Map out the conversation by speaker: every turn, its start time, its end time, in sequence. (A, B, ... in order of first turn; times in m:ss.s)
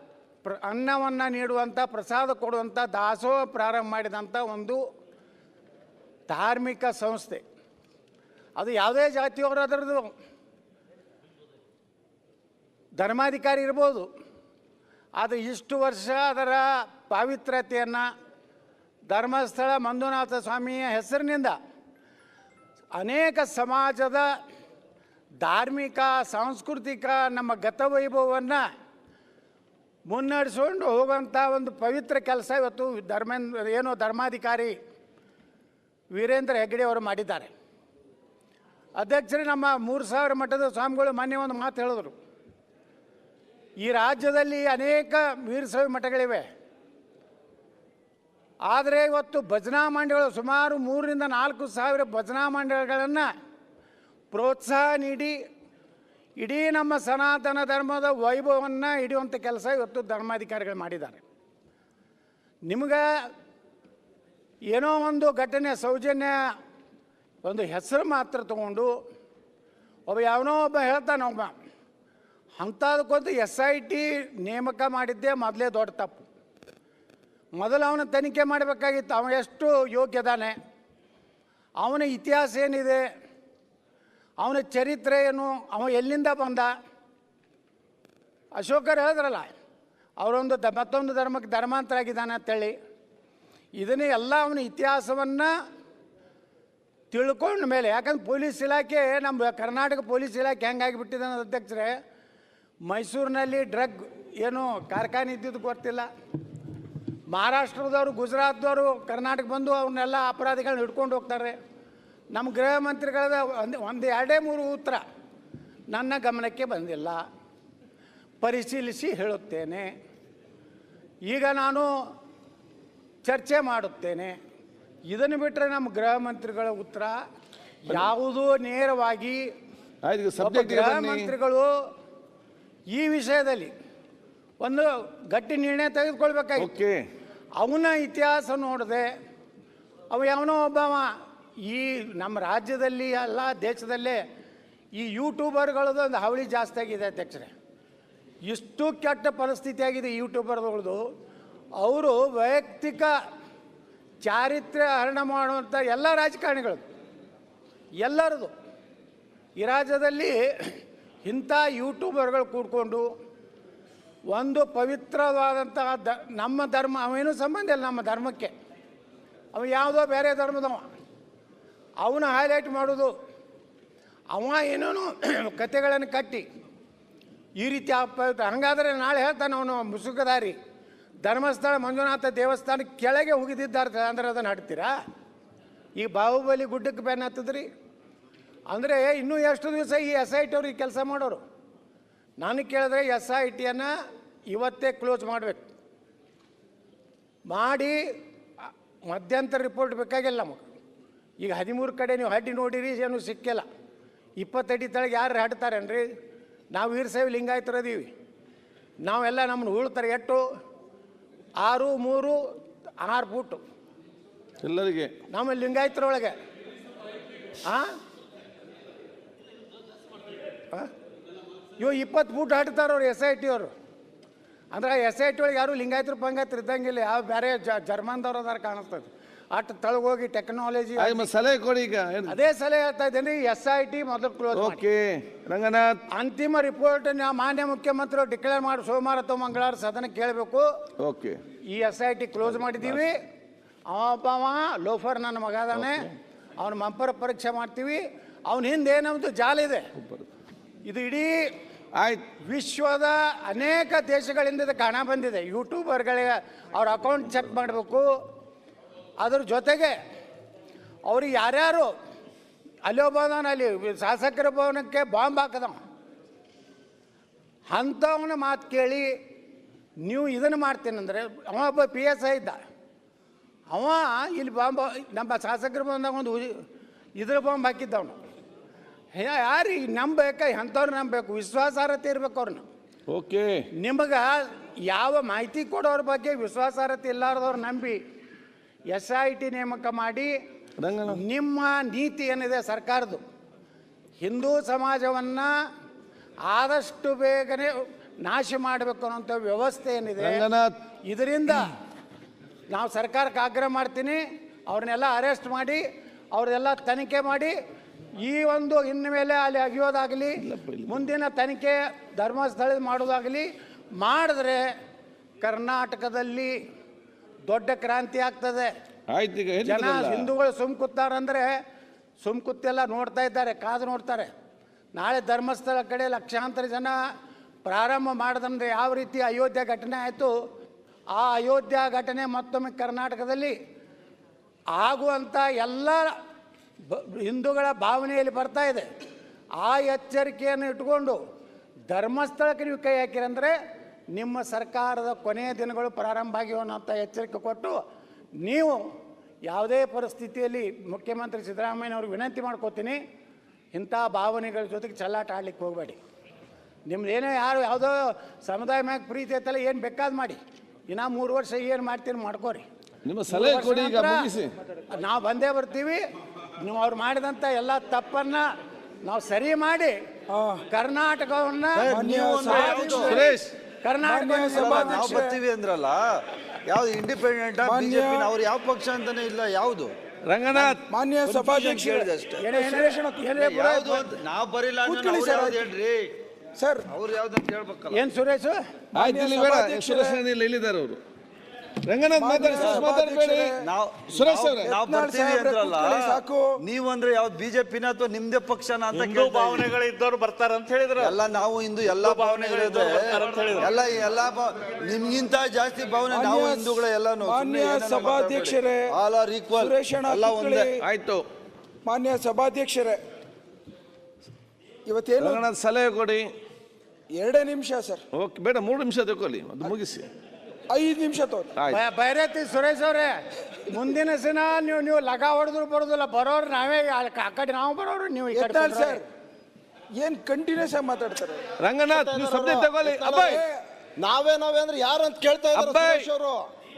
0:00.4-0:04.8 A
0:06.3-0:07.4 A
0:08.6-0:10.1 A
0:13.0-0:14.1 A
0:15.2-0:18.1 A
0:19.1-0:21.6 A
0:22.9-0:24.3 A
0:25.4-0:28.6 A
0:30.1-0:34.7 A
0:36.1-0:37.5 A
0:39.0-0:42.1 A
0:43.8-0:46.4 A
0:48.6-0:53.3 A
0:54.3-0:55.4 A
0:56.4-1:01.2 A
1:02.7-1:03.3 A
1:04.7-1:06.4 A
1:07.4-1:08.9 A
1:10.1-1:11.5 A
1:12.6-1:16.2 A
1:17.6-1:20.5 A
1:21.8-1:23.0 A
1:24.4-1:26.7 A
1:28.6-1:29.5 A
1:30.2-1:32.7 A
1:33.8-1:35.5 A
1:37.1-1:41.9 A
1:42.8-1:46.1 A
1:47.3-1:51.6 A
1:52.3-1:55.0 A
1:55.9-1:57.2 A
1:58.4-1:59.9 A
2:01.3-2:01.9 A
2:03.2-2:04.4 A
2:05.1-2:07.2 A
2:07.8-2:09.5 A
2:10.0-2:11.3 B
2:10.4-2:11.7 A
2:12.9-2:13.7 A
2:14.6-2:16.7 A
2:16.6-2:17.0 B
2:17.6-2:19.1 A
2:20.1-2:21.1 A
2:21.6-2:24.2 A
2:25.0-2:27.5 A
2:28.4-2:31.0 A
2:31.8-2:33.1 A
2:34.2-2:36.8 A
2:38.0-2:38.5 A
2:39.6-2:43.1 A
2:44.3-2:48.5 A
2:49.5-2:50.8 A
2:52.0-2:53.1 A
2:54.3-2:56.4 A
2:57.6-3:00.5 A
3:01.2-3:04.9 A
3:06.0-3:07.7 A
3:08.7-3:11.4 A
3:12.4-3:13.9 A
3:14.5-3:15.6 A
3:17.5-3:18.0 A
3:18.6-3:20.6 A
3:21.4-3:23.6 A
3:24.4-3:26.0 A
3:26.7-3:28.1 A
3:29.0-3:30.4 A
3:31.6-3:32.4 A
3:33.0-3:33.6 A
3:34.6-3:35.1 B
3:35.3-3:36.3 A
3:37.6-3:37.9 A
3:41.8-3:43.7 A
3:44.7-3:51.3 A
3:51.0-3:52.3 B
3:52.3-3:54.8 A
3:54.5-3:56.0 B
3:56.1-4:00.7 A
4:01.0-4:01.4 B
4:01.6-4:03.2 A
4:03.9-4:09.9 A
4:05.8-4:06.1 B
4:10.8-4:11.4 A
4:11.9-4:12.2 B
4:12.4-4:18.1 A
4:19.2-4:20.0 A
4:21.1-4:21.9 A
4:22.8-4:25.8 A
4:27.7-4:29.1 A
4:30.0-4:32.6 A
4:33.7-4:36.6 A
4:37.2-4:38.2 A
4:39.1-4:42.6 A
4:43.1-4:43.6 B
4:43.8-4:48.0 A
4:48.9-4:50.3 A
4:50.8-4:51.2 B
4:51.1-4:53.2 A
4:54.2-4:55.5 A
4:56.4-5:00.4 A
5:00.2-5:00.7 B
5:01.0-5:01.8 A
5:02.7-5:07.6 A
5:08.2-5:14.7 A
5:10.4-5:10.9 B
5:15.4-5:16.6 A
5:17.5-5:18.7 A
5:19.1-5:20.3 B
5:19.6-5:21.6 A
5:22.2-5:24.3 A
5:24.9-5:26.9 A
5:27.6-5:30.3 A
5:31.1-5:33.6 A
5:34.7-5:36.1 A
5:36.9-5:38.9 A
5:39.6-5:41.2 A
5:41.9-5:43.6 A
5:44.1-5:47.8 A
5:48.4-5:48.8 A
5:49.5-5:53.0 A
5:53.7-5:56.0 A
5:56.9-6:02.6 A
6:03.0-6:04.5 B
6:03.3-6:04.3 A
6:04.9-6:06.0 A
6:06.6-6:08.5 A
6:09.0-6:10.0 A
6:10.3-6:10.6 C
6:10.7-6:12.0 A
6:11.7-6:13.2 D
6:11.9-6:13.4 C
6:12.5-6:13.5 B
6:12.5-6:13.1 A
6:13.8-6:15.2 A
6:14.0-6:15.4 C
6:14.5-6:16.0 D
6:16.6-6:19.9 D
6:17.6-6:18.3 C
6:20.3-6:20.8 B
6:20.5-6:22.4 D
6:20.8-6:23.3 C
6:22.4-6:24.1 A
6:23.4-6:26.1 D
6:24.8-6:25.6 C
6:26.6-6:26.9 C
6:26.9-6:28.0 D
6:27.9-6:28.6 A
6:28.9-6:30.2 C
6:28.9-6:31.0 B
6:31.8-6:33.6 B
6:32.2-6:33.6 C
6:32.4-6:32.9 D
6:33.6-6:36.0 D
6:34.1-6:34.7 B
6:34.6-6:36.5 C
6:36.6-6:39.7 D
6:38.9-6:41.2 E
6:41.0-6:50.7 D
6:41.8-6:43.7 E
6:46.1-6:48.9 C
6:49.6-6:50.8 C
6:50.8-6:51.2 B
6:51.8-6:53.0 C
6:54.8-6:55.4 C
6:55.2-6:56.2 B
6:57.1-6:58.0 C
6:58.1-7:00.0 B
7:00.7-7:01.5 C
7:01.7-7:09.0 A
7:08.3-7:09.0 C
7:09.9-7:11.4 C
7:11.6-7:13.4 B
7:11.9-7:13.4 D
7:13.2-7:13.6 C
7:14.0-7:16.5 D
7:15.5-7:16.1 B